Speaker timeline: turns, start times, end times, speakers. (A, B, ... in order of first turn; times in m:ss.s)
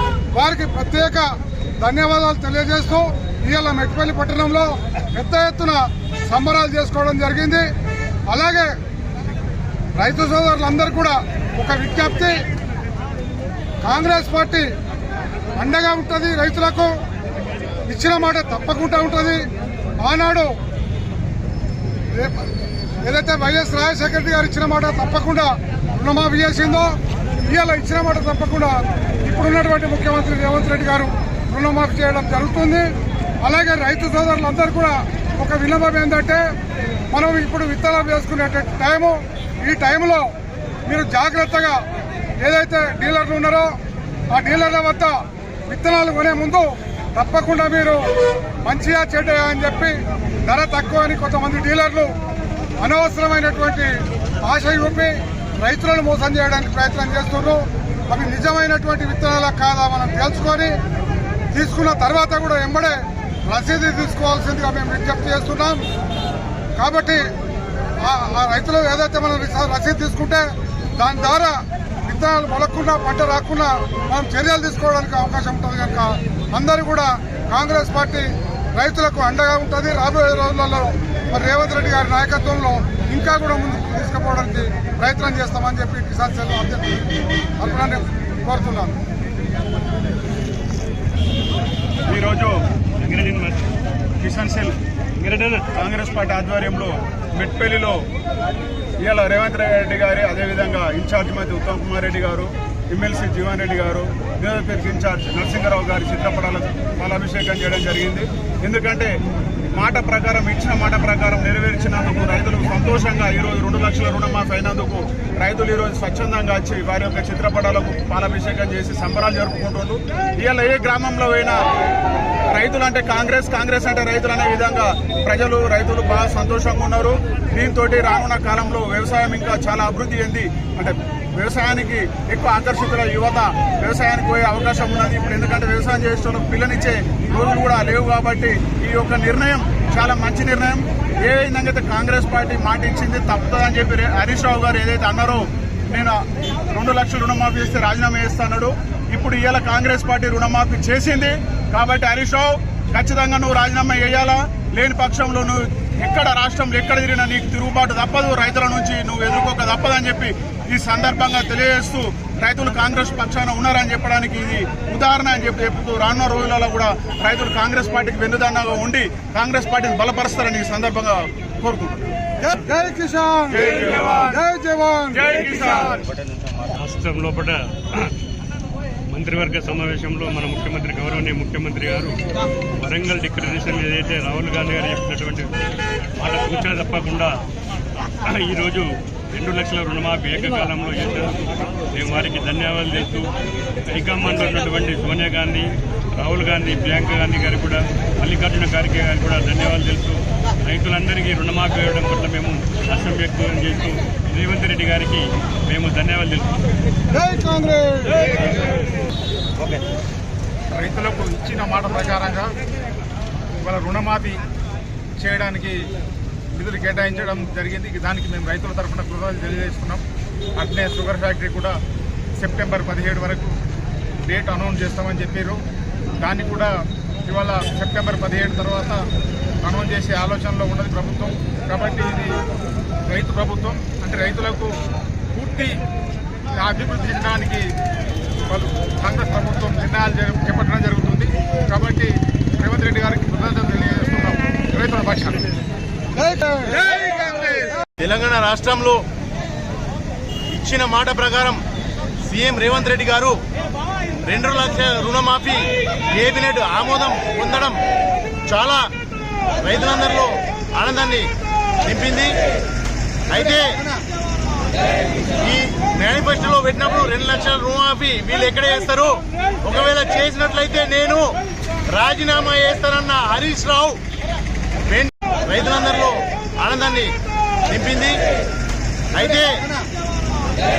0:00.3-0:07.7 A
0:08.3-0:08.8 A
0:10.0-0:12.4 A
0:13.8-0:14.7 A
0:15.6-0:16.9 A
0:17.9-0:19.4 A
0:20.0-0:20.5 A
0:22.1-0:22.5 A
0:23.0-0:32.9 A
0:33.4-0:36.4 A
0:37.1-0:40.3 A
0:40.9-0:41.8 A
0:42.4-0:43.7 A
0:44.3-0:48.0 A
0:48.6-0:52.1 A
0:52.8-1:00.7 A
1:01.5-1:05.8 A
1:06.8-1:07.2 A
1:08.0-1:29.0 A
1:32.1-1:32.6 B
1:33.0-1:33.6 C
1:34.2-1:34.8 B
1:35.2-1:35.6 C
1:35.7-1:38.0 B
1:39.0-1:49.1 B
1:49.7-2:01.6 B
2:02.5-2:52.1 B
2:52.5-2:55.4 A
2:55.3-2:55.9 B
2:56.7-2:58.1 C
2:59.1-3:02.2 C
3:02.8-3:05.6 C
3:06.2-3:07.4 C
3:08.0-3:13.3 C
3:13.9-3:26.6 C
3:27.1-3:28.3 A
3:30.7-3:32.5 D
3:33.6-3:34.4 D
3:35.2-3:35.8 D
3:36.5-3:40.0 D
3:40.6-3:41.8 D
3:42.4-3:43.5 D
3:44.3-3:45.6 D
3:46.2-3:46.7 D
3:47.3-3:49.0 D
3:49.6-3:52.3 D
3:53.1-3:54.7 D
3:55.3-3:55.8 D
3:56.6-3:57.7 D
3:58.5-4:05.4 D
4:06.2-4:06.8 A
4:08.0-4:09.0 E
4:10.5-4:11.6 E
4:12.2-4:13.4 E
4:14.2-4:15.6 E
4:16.2-4:17.8 E
4:18.5-4:18.8 E
4:19.6-4:21.3 E
4:21.8-4:22.3 E
4:23.3-4:23.8 E
4:25.4-4:31.3 E
4:31.9-4:34.0 E
4:34.9-4:37.1 E
4:37.7-4:38.2 E
4:39.1-4:39.7 E